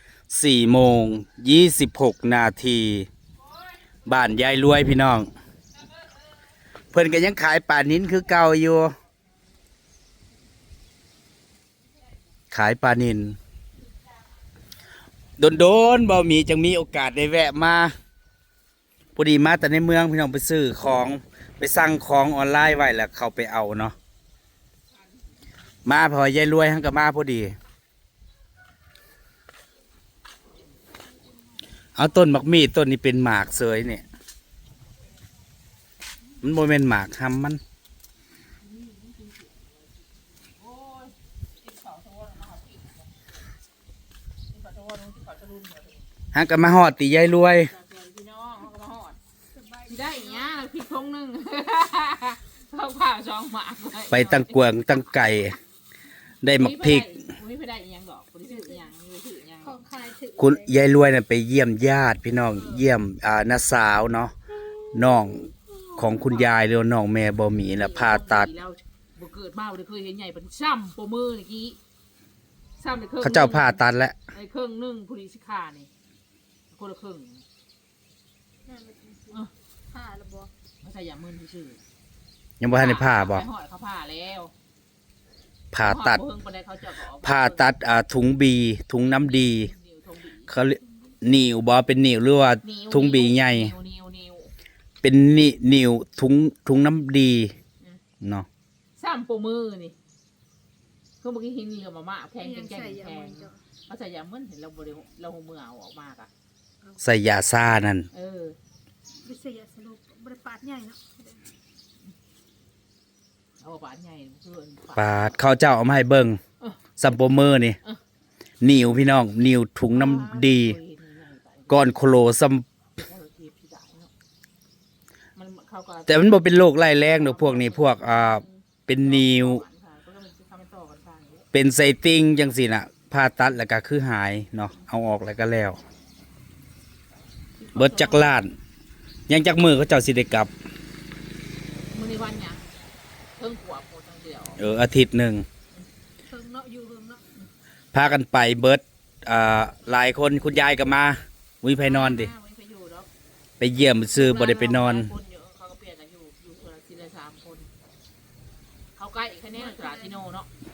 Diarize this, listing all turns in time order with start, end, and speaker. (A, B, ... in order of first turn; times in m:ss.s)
0:00.3-0:03.1 A
0:04.0-0:05.3 A
0:06.9-0:08.9 A
0:12.5-0:13.4 A
0:15.4-0:17.9 A
0:19.2-0:24.0 A
0:25.8-0:27.5 A
0:32.0-0:34.0 A
0:36.4-0:37.6 A
0:38.6-0:39.9 B
0:40.5-0:43.1 B
0:44.5-0:46.1 B
0:46.3-0:47.7 A
0:47.6-0:49.2 B
0:49.5-0:50.6 C
0:49.9-0:54.9 B
0:54.1-0:55.6 A
0:56.4-0:57.2 A
0:56.6-0:59.8 B
0:59.6-1:00.7 C
1:00.4-1:04.3 A
1:02.5-1:02.9 B
1:04.9-1:08.5 A
1:05.9-1:06.6 B
1:07.6-1:11.8 B
1:12.8-1:13.8 B
1:13.2-1:14.2 A
1:14.3-1:15.9 B
1:16.7-1:17.4 B
1:18.7-1:20.5 C
1:20.8-1:21.8 B
1:22.6-1:23.4 A
1:22.7-1:24.5 B
1:25.7-1:26.2 A
1:25.8-1:27.8 B
1:27.2-1:29.7 A
1:29.5-1:30.5 B
1:30.5-1:33.7 A
1:32.6-1:34.5 B
1:35.0-1:37.5 A
1:38.2-1:38.5 A
1:39.0-1:39.9 B
1:41.2-1:46.3 B
1:42.4-1:43.6 C
1:47.0-1:48.1 A
1:48.1-1:48.6 B
1:49.2-1:51.4 C
1:53.6-1:55.4 B
1:55.0-1:56.4 A
1:57.0-1:57.8 A
1:58.6-2:00.8 A
1:59.9-2:02.0 B
2:01.7-2:02.6 A
2:03.0-2:04.1 B
2:05.4-2:06.4 B
2:06.1-2:09.6 A
2:07.0-2:11.4 B
2:11.5-2:15.8 A
2:17.6-2:18.4 B
2:17.8-2:18.5 A
2:19.3-2:20.5 A
2:21.9-2:22.6 B
2:23.4-2:24.6 B
2:24.6-2:25.4 A
2:26.3-2:27.2 C
2:27.9-2:32.3 A
2:31.7-2:33.1 B
2:33.6-2:35.1 A
2:33.8-2:37.7 B
2:39.0-2:40.5 B
2:39.5-2:40.2 C